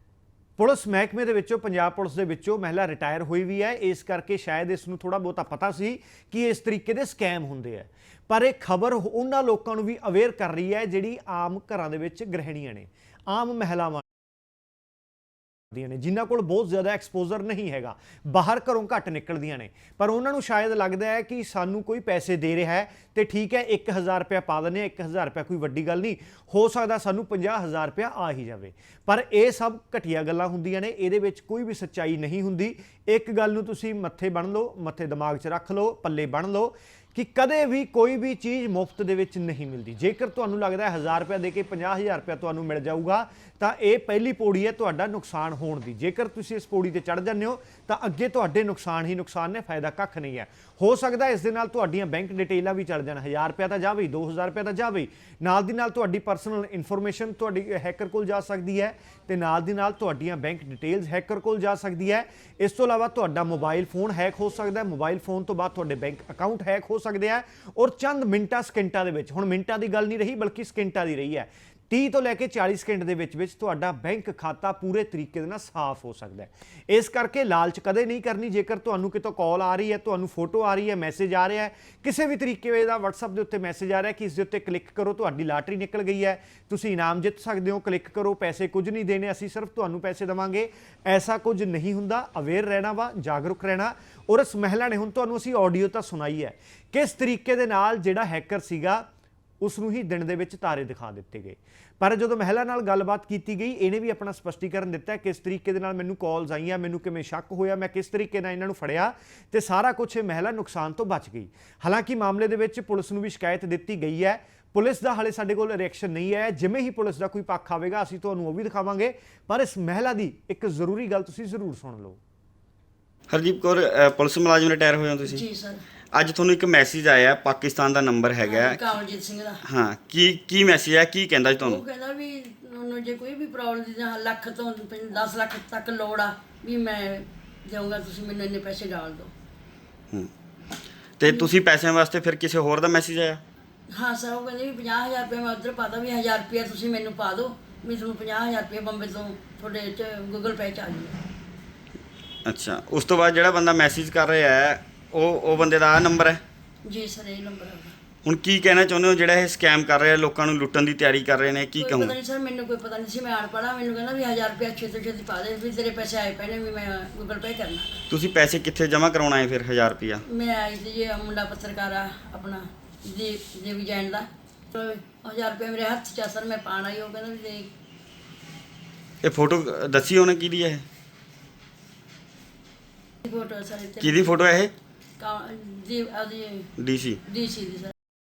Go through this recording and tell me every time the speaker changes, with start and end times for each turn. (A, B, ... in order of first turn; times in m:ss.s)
0:00.6-0:14.0 A
0:15.7-1:39.1 A
1:39.6-2:02.2 A
2:03.3-2:05.4 B
2:05.2-2:05.8 C
2:06.1-2:08.9 B
2:08.4-2:09.6 C
2:09.6-2:11.8 B
2:11.6-2:19.3 C
2:21.2-2:23.4 B
2:21.2-2:21.5 C
2:23.9-2:31.1 C
2:32.4-2:36.4 B
2:36.8-2:37.9 C
2:38.2-2:42.2 B
2:41.8-2:48.0 C
2:48.1-2:50.2 B
2:50.3-2:57.7 C
2:59.2-3:00.8 B
3:03.2-3:04.3 C
3:04.0-3:04.7 B
3:05.2-3:06.7 C
3:06.8-3:07.2 B
3:07.2-3:07.9 C